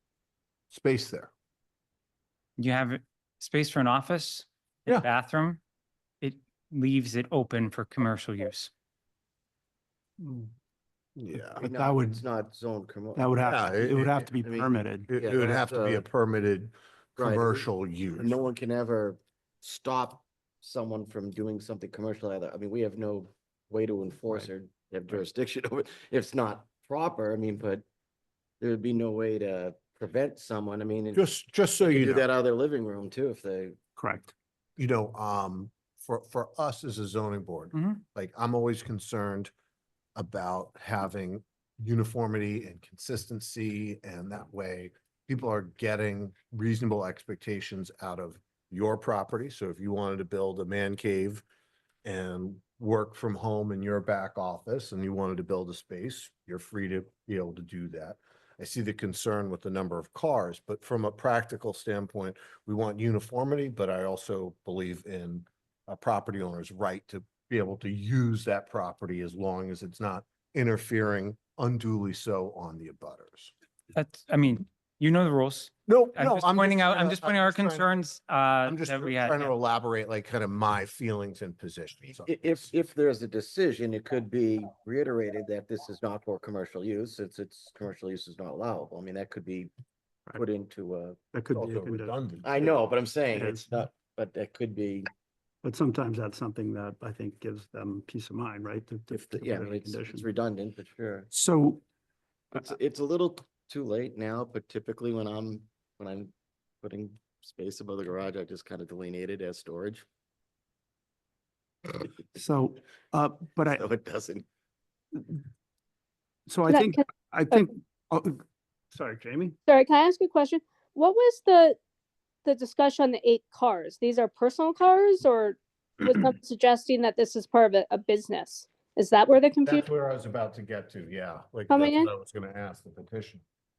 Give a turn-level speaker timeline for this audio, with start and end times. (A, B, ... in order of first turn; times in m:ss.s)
0:00.7-0:01.3 A
0:02.6-0:05.6 B
0:06.2-0:08.7 B
0:11.2-0:11.6 A
0:11.6-0:12.2 C
0:11.6-0:13.2 D
0:13.1-0:15.1 C
0:13.4-0:14.2 A
0:14.4-0:16.0 D
0:15.1-0:18.3 A
0:17.2-0:27.8 D
0:28.6-0:31.3 D
0:31.1-0:32.2 A
0:31.8-0:33.8 D
0:34.0-0:34.3 C
0:34.8-0:39.5 A
0:40.2-0:51.4 A
0:52.0-1:13.5 A
1:13.9-1:19.5 B
1:15.8-1:17.9 A
1:18.6-1:22.6 A
1:22.2-1:29.7 D
1:30.4-1:31.2 D
1:31.3-1:32.1 C
1:31.5-1:32.7 A
1:32.4-1:35.1 D
1:33.3-1:33.7 C
1:35.6-1:40.2 C
1:39.1-1:41.3 D
1:41.3-1:41.8 C
1:42.5-1:50.0 D
1:52.3-1:53.8 C
1:53.8-1:54.4 D
1:55.1-1:55.4 C
1:56.5-1:58.4 C
1:58.9-1:59.6 C
1:59.7-2:01.8 E
2:02.4-2:09.7 E
2:09.6-2:13.4 A
2:11.7-2:12.1 E